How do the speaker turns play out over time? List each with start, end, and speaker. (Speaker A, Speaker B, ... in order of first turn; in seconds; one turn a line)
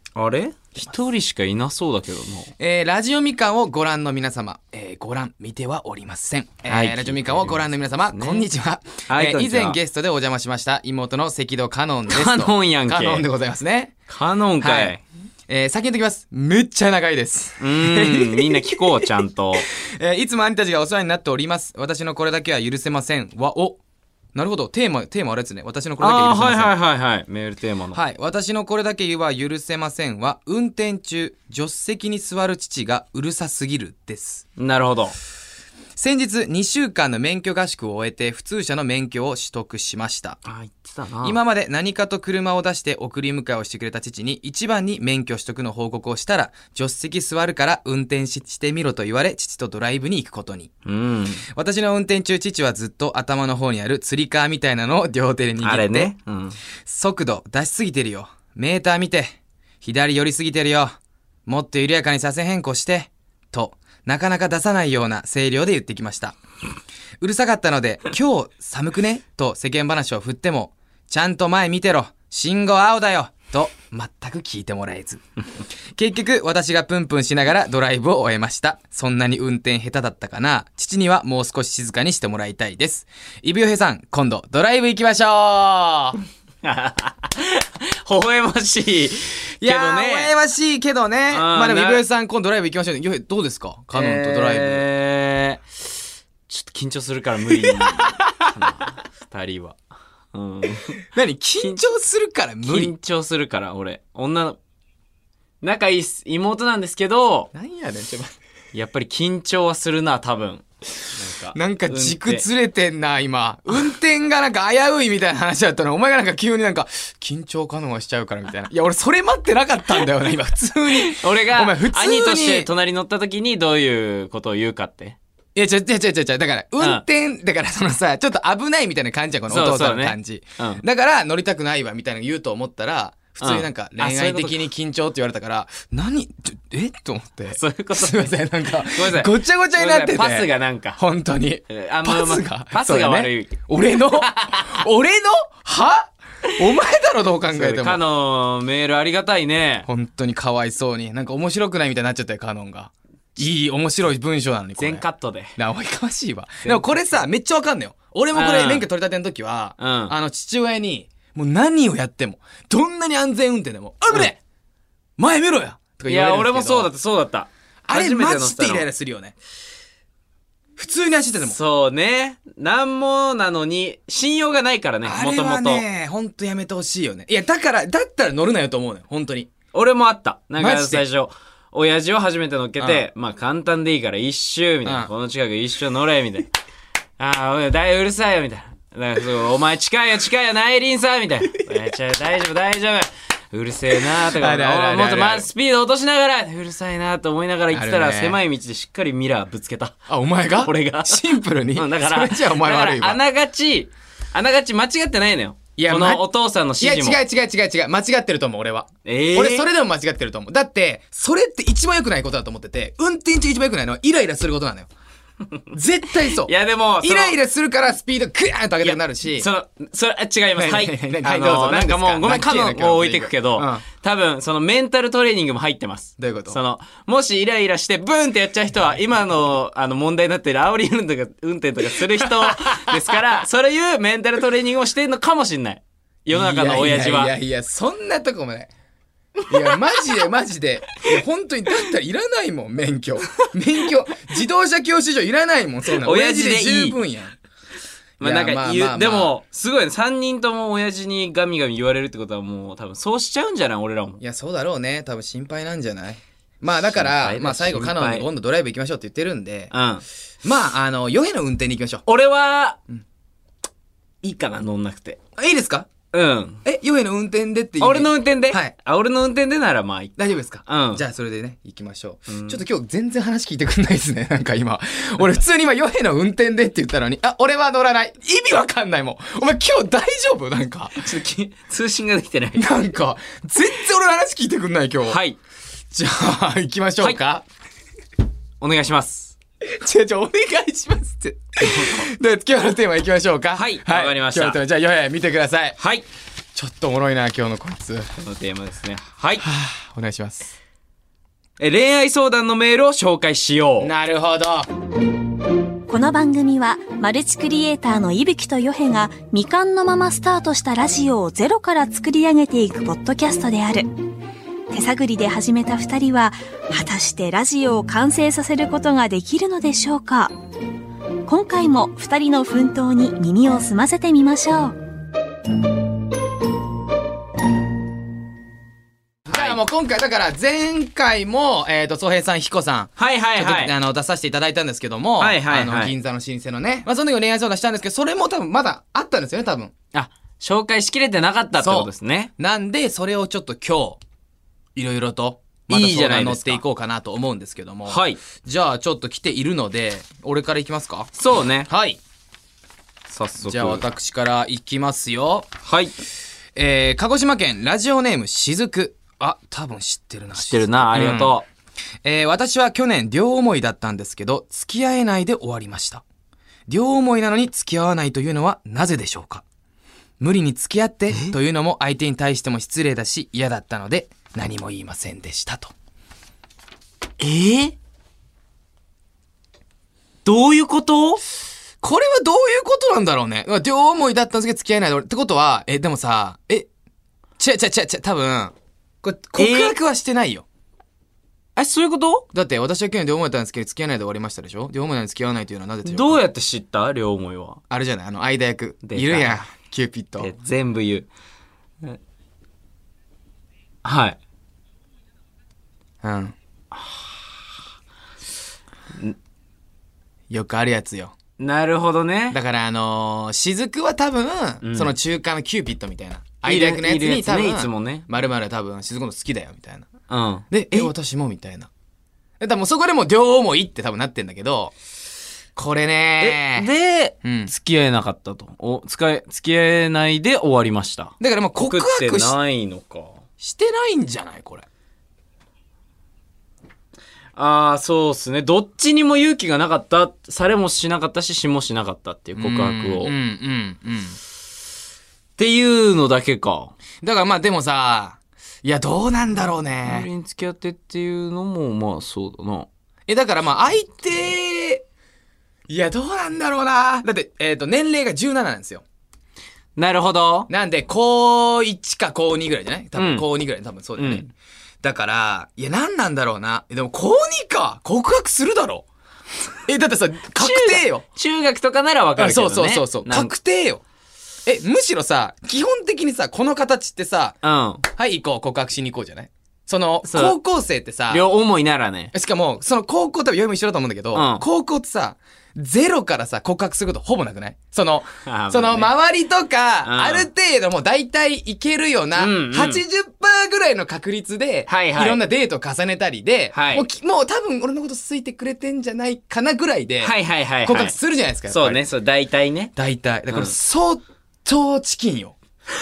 Speaker A: 0.2-2.5
Speaker B: 2.6-14.0
Speaker A: 6.7-8.5
Speaker A: 9.1-9.8
Speaker A: 12.1-13.3
Speaker A: 14.1-15.0
Speaker B: 14.6-18.9
Speaker A: 17.6-19.7
Speaker B: 19.7-23.8
Speaker B: 24.4-26.7
Speaker A: 26.0-28.0
Speaker B: 27.9-34.5
Speaker A: 34.6-35.1
Speaker B: 36.0-40.4
Speaker A: 40.5-41.4
Speaker B: 41.2-50.7
Speaker A: 50.9-51.4
Speaker B: 51.5-56.1
Speaker A: 55.6-56.6
Speaker B: 56.9-66.4
Speaker B: 67.2-75.2
Speaker B: 76.0-86.2
Speaker A: 86.6-90.3
Speaker B: 89.6-94.9
Speaker A: 91.3-92.0
Speaker A: 93.9-95.6
Speaker A: 96.5-99.8
Speaker B: 97.8-98.0
Speaker A: 100.3-101.0
Speaker B: 101.1-102.9
Speaker A: 102.6-104.6
Speaker A: 105.6-107.5
Speaker B: 107.5-108.4
Speaker A: 108.7-112.5
Speaker B: 111.5-122.7
Speaker A: 121.0-125.2
Speaker B: 125.5-148.0
Speaker A: 129.5-130.8
Speaker A: 133.4-134.6
Speaker A: 137.5-141.0
Speaker A: 141.7-143.6
Speaker A: 147.5-149.9
Speaker B: 149.9-155.0
Speaker A: 154.8-155.6
Speaker B: 155.6-164.4
Speaker A: 156.7-157.0
Speaker A: 158.3-158.9
Speaker A: 159.8-160.2
Speaker B: 165.2-166.9
Speaker A: 166.1-168.9
Speaker B: 167.9-169.4
Speaker B: 170.8-171.6
Speaker A: 171.4-175.8
Speaker B: 175.0-179.5
Speaker A: 179.7-186.5
Speaker B: 180.6-181.0
Speaker B: 182.8-183.1
Speaker B: 184.8-185.1
Speaker A: 187.2-207.2
Speaker B: 194.3-195.5
Speaker B: 197.7-198.4
Speaker B: 200.1-203.2
Speaker B: 205.8-206.2
Speaker B: 206.8-214.9
Speaker A: 209.1-209.7
Speaker B: 215.7-219.5
Speaker A: 216.2-217.4
Speaker A: 218.8-237.3
Speaker B: 220.6-223.8
Speaker B: 226.2-226.6
Speaker B: 236.3-238.7
Speaker B: 239.5-247.4
Speaker A: 239.5-239.8
Speaker A: 245.9-247.0
Speaker A: 248.2-254.2
Speaker B: 248.2-249.4
Speaker B: 254.2-259.7
Speaker A: 256.9-258.3
Speaker A: 259.7-260.0
Speaker B: 260.4-262.1
Speaker A: 262.1-262.8
Speaker A: 264.2-265.2
Speaker B: 265.4-265.9
Speaker A: 266.1-266.6
Speaker B: 266.6-268.7
Speaker A: 267.8-271.0
Speaker B: 270.2-281.0
Speaker A: 272.3-272.6
Speaker A: 281.0-282.7
Speaker B: 282.6-285.2
Speaker A: 285.1-285.4
Speaker B: 285.9-287.4
Speaker A: 288.6-289.4
Speaker B: 289.8-295.8
Speaker A: 291.6-292.1
Speaker A: 293.5-294.6
Speaker A: 295.8-296.1
Speaker B: 296.6-298.1
Speaker A: 298.2-299.4
Speaker B: 299.4-300.5
Speaker A: 301.6-303.9
Speaker B: 303.8-304.7
Speaker C: 305.9-313.9
Speaker C: 314.7-320.3
Speaker C: 321.3-324.7
Speaker B: 329.3-339.7
Speaker A: 329.3-329.6
Speaker A: 333.0-333.7
Speaker A: 335.2-335.9
Speaker A: 339.9-342.3
Speaker B: 341.6-344.0
Speaker B: 344.8-351.1
Speaker A: 345.7-346.6
Speaker A: 347.9-348.2
Speaker A: 351.1-351.7
Speaker B: 351.7-352.0
Speaker A: 353.1-353.9
Speaker B: 353.4-355.5
Speaker A: 355.6-355.9
Speaker B: 356.6-361.4
Speaker A: 360.4-361.5
Speaker B: 362.0-366.0
Speaker B: 366.7-369.4
Speaker B: 370.2-375.7
Speaker A: 377.2-377.8
Speaker A: 380.2-381.2
Speaker B: 381.8-386.7
Speaker B: 387.4-390.5
Speaker A: 389.4-389.8
Speaker A: 391.6-392.3
Speaker B: 392.3-396.2
Speaker A: 395.9-397.6
Speaker B: 397.7-400.3
Speaker A: 398.8-399.4
Speaker A: 400.2-401.1
Speaker A: 403.8-404.2
Speaker B: 406.0-406.4
Speaker B: 410.3-411.1
Speaker A: 411.4-412.4
Speaker B: 412.3-419.9
Speaker A: 414.6-414.9
Speaker A: 416.4-418.1
Speaker A: 420.1-420.9
Speaker B: 420.5-421.7
Speaker B: 422.4-424.7
Speaker B: 425.6-426.7
Speaker A: 426.2-433.2
Speaker B: 427.2-427.5
Speaker B: 431.2-432.4
Speaker B: 433.4-434.7
Speaker A: 437.4-443.1
Speaker B: 442.4-444.2
Speaker A: 445.4-446.7
Speaker B: 447.0-450.1
Speaker A: 449.9-452.7
Speaker B: 453.1-454.8
Speaker B: 455.7-458.8
Speaker A: 459.8-460.5
Speaker B: 460.5-468.9
Speaker A: 463.0-463.3
Speaker A: 464.0-464.2
Speaker B: 469.7-471.0
Speaker A: 470.4-473.3
Speaker B: 472.2-473.8
Speaker B: 474.5-477.4
Speaker A: 477.4-477.8
Speaker B: 477.9-481.3
Speaker A: 480.0-480.4
Speaker A: 481.1-482.1
Speaker B: 482.1-501.9
Speaker A: 484.1-484.4
Speaker A: 488.2-488.9
Speaker A: 489.8-490.3
Speaker A: 492.2-492.8
Speaker A: 494.7-495.2
Speaker A: 496.5-496.9
Speaker A: 500.0-501.0
Speaker A: 501.5-502.7
Speaker B: 502.8-505.4